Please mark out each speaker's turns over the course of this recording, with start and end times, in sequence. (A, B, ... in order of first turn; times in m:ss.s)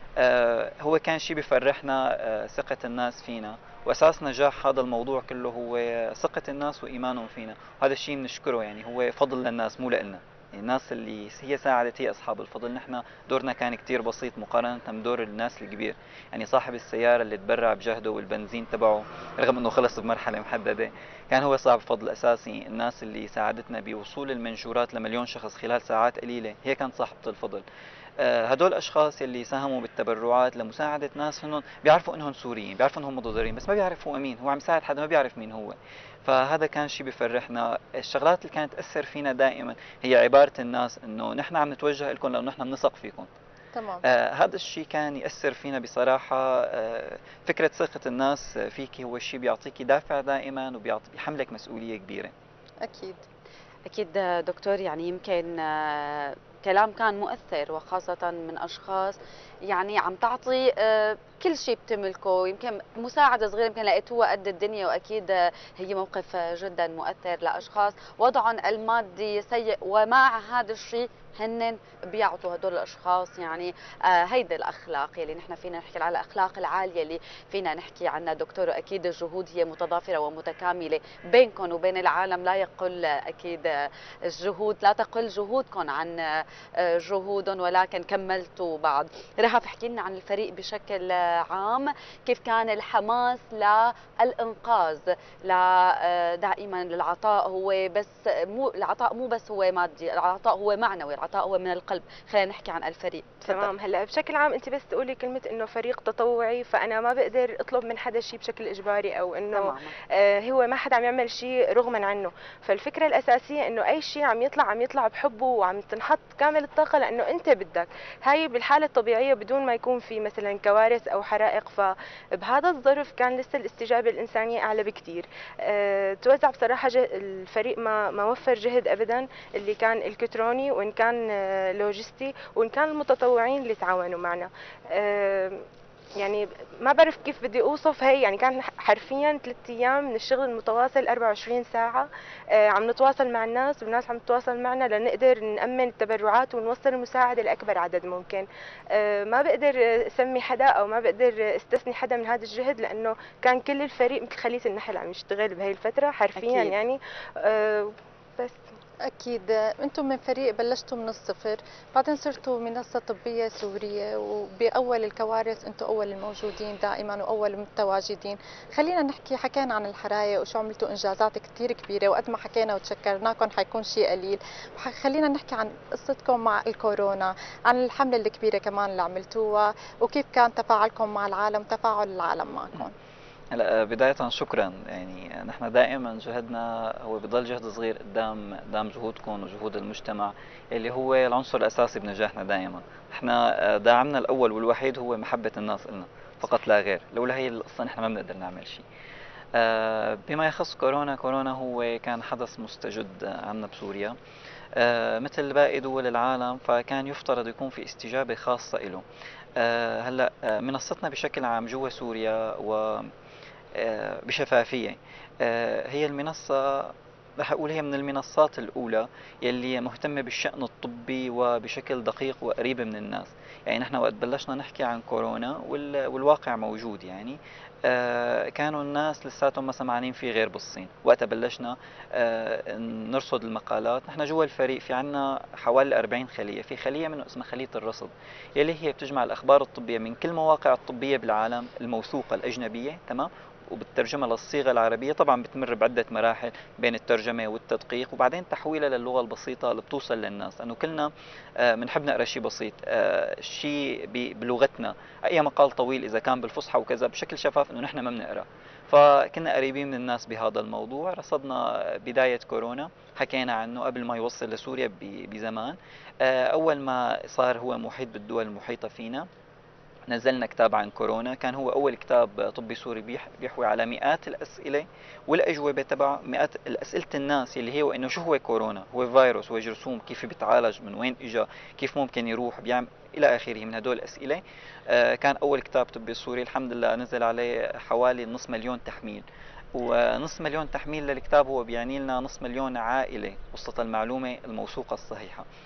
0:00.2-0:27.6 A
0:28.2-0:43.3 A
0:43.7-0:44.0 B
0:44.0-0:52.3 A
0:52.8-0:53.2 B
0:53.9-1:43.7 C
1:43.5-2:15.6 D
1:49.5-1:49.9 C
2:16.2-2:38.6 D
2:36.4-2:36.8 C
2:39.1-3:03.0 B
3:03.5-3:18.8 A
3:19.6-3:24.2 A
3:24.8-3:29.0 A
3:29.6-3:33.1 A
3:33.8-4:29.2 A
4:30.1-4:55.4 A